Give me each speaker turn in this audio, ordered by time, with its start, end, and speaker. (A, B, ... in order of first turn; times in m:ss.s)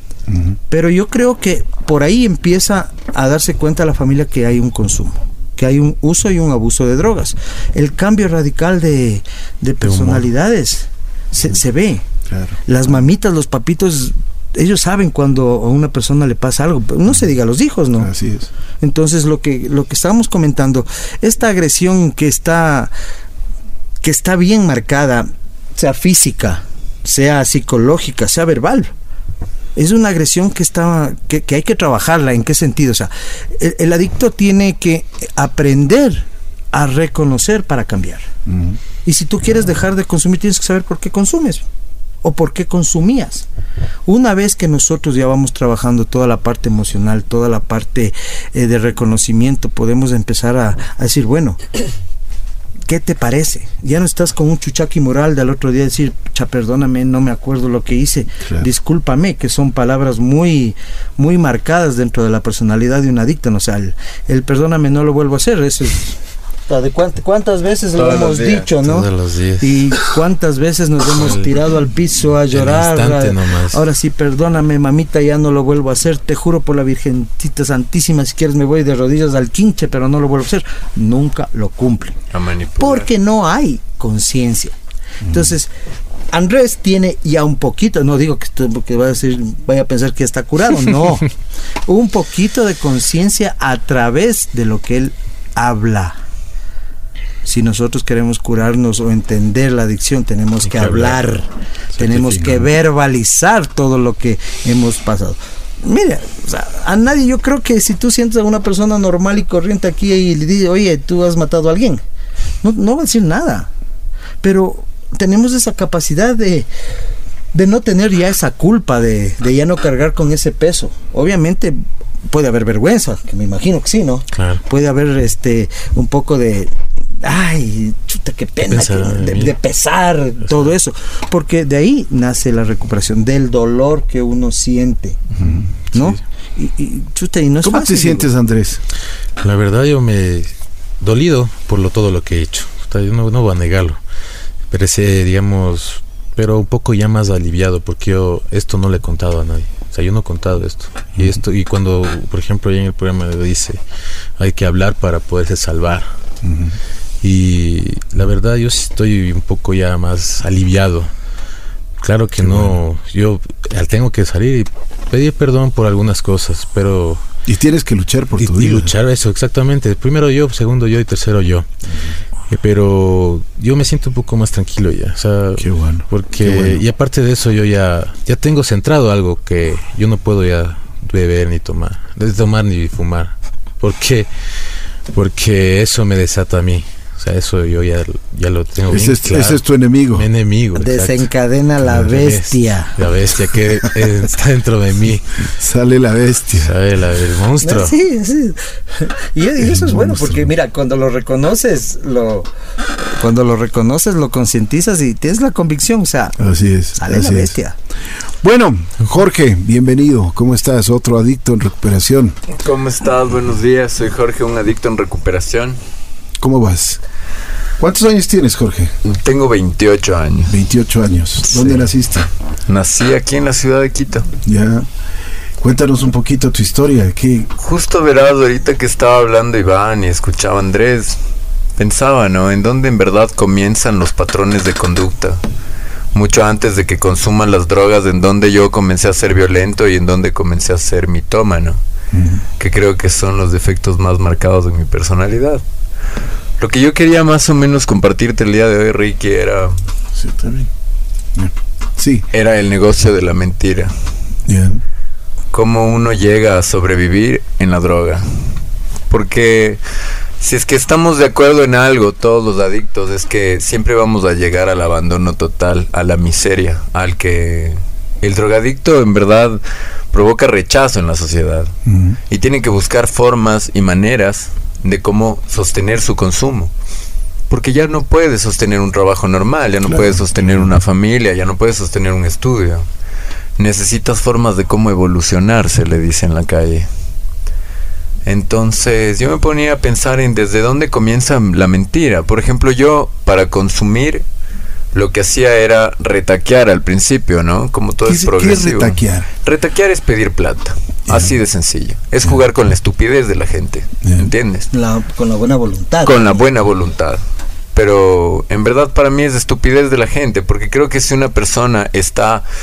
0:00.3-0:00.6 A
0:00.7-0:12.0 B
0:09.8-0:10.2 C
0:12.3-0:12.6 A
0:12.7-0:18.1 B
0:18.0-0:18.5 A
0:18.8-0:22.9 B
0:24.0-0:28.9 B
0:29.8-0:38.3 B
0:38.5-0:38.8 A
0:39.0-0:41.7 B
0:42.2-0:43.5 B
0:44.1-0:51.6 B
0:52.9-1:06.2 B
1:06.7-1:09.1 B
1:08.0-1:08.7 D
1:08.8-1:09.8 C
1:09.6-1:22.2 B
1:11.2-1:11.5 C
1:12.5-1:13.8 C
1:22.3-1:23.1 D
1:22.8-1:24.8 B
1:25.2-1:25.5 A
1:25.3-1:25.7 B
1:26.3-1:31.3 B
1:31.9-1:36.2 B
1:37.4-1:41.5 B
1:40.7-1:41.4 C
1:42.0-1:52.0 B
1:42.0-1:42.5 A
1:52.6-1:53.7 B
1:54.4-1:56.7 B
1:57.5-2:15.2 B
2:04.3-2:04.6 C
2:08.6-2:09.6 C
2:15.4-2:15.7 A
2:15.9-2:18.3 B
2:17.6-2:18.8 A
2:19.4-2:24.0 C
2:24.7-2:33.8 C
2:31.2-2:31.4 A
2:34.4-2:36.1 C
2:36.4-2:36.8 A
2:37.2-2:41.1 C
2:42.0-2:47.2 C
2:42.4-2:42.8 A
2:47.5-2:48.9 A
2:48.4-2:51.7 C
2:51.9-2:52.2 A
2:52.5-3:04.3 C
2:55.6-2:56.8 A
3:05.1-3:09.6 C
3:08.9-3:10.3 A
3:10.1-3:11.3 C
3:10.8-3:13.0 B
3:11.8-3:15.4 C
3:15.4-3:16.7 A
3:16.6-3:17.9 C
3:17.6-3:22.5 B
3:19.6-3:20.4 A
3:23.2-3:26.4 B
3:26.4-3:27.5 A
3:27.0-3:27.8 B
3:28.4-3:32.4 A
3:32.5-3:35.8 D
3:36.4-3:37.0 A
3:37.8-3:38.9 A
3:39.0-3:40.6 D
3:40.5-3:42.3 A
3:41.5-3:41.9 D
3:42.7-3:44.3 D
3:44.4-3:44.9 A
3:45.6-3:47.5 A
3:47.6-3:51.2 D
3:51.8-3:55.4 D
3:56.1-4:01.8 D
4:02.1-4:02.4 A
4:02.6-4:05.6 D
4:06.6-4:09.8 D
4:10.2-4:10.7 A
4:11.4-4:12.3 A
4:12.3-4:13.9 D
4:14.5-4:14.8 A
4:15.5-4:18.3 D
4:19.1-4:19.8 D
4:20.4-4:29.6 D
4:30.1-4:31.7 D
4:31.9-4:32.2 A
4:32.3-4:36.7 D
4:37.5-4:42.9 D
4:39.8-4:40.7 A
4:43.6-4:46.9 D
4:48.2-4:54.3 D
4:54.9-5:04.7 D
4:58.0-4:59.3 A
5:04.0-5:04.3 A
5:04.7-5:06.3 B
5:06.0-5:07.2 D
5:07.7-5:12.4 D